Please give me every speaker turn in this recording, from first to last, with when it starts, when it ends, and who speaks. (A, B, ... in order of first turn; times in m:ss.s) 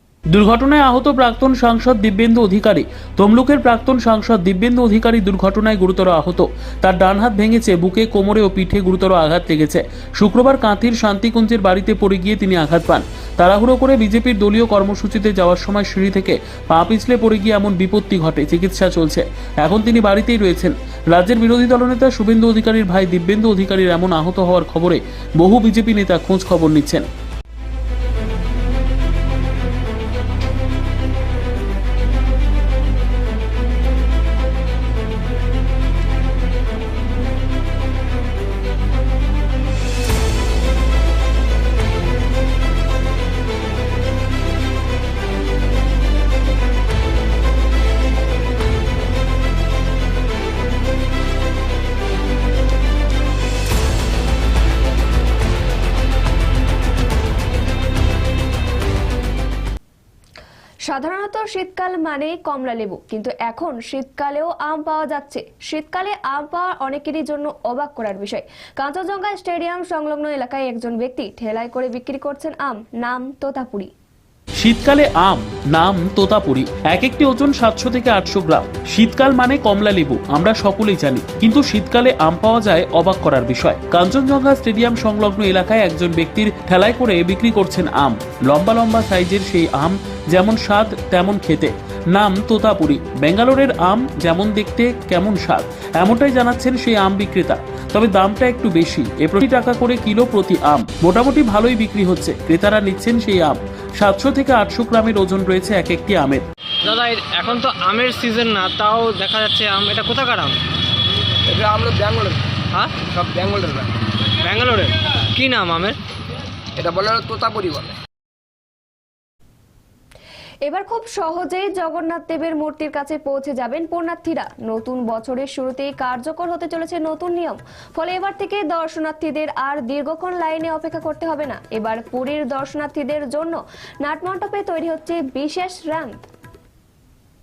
0:00.3-0:27.1 A
1:00.9-1:13.9 B
1:14.6-1:46.4 A
1:46.8-1:50.6 C
1:51.5-1:54.0 D
1:54.4-1:54.8 C
1:55.4-1:56.0 C
1:56.8-1:58.0 D
2:00.7-2:16.2 B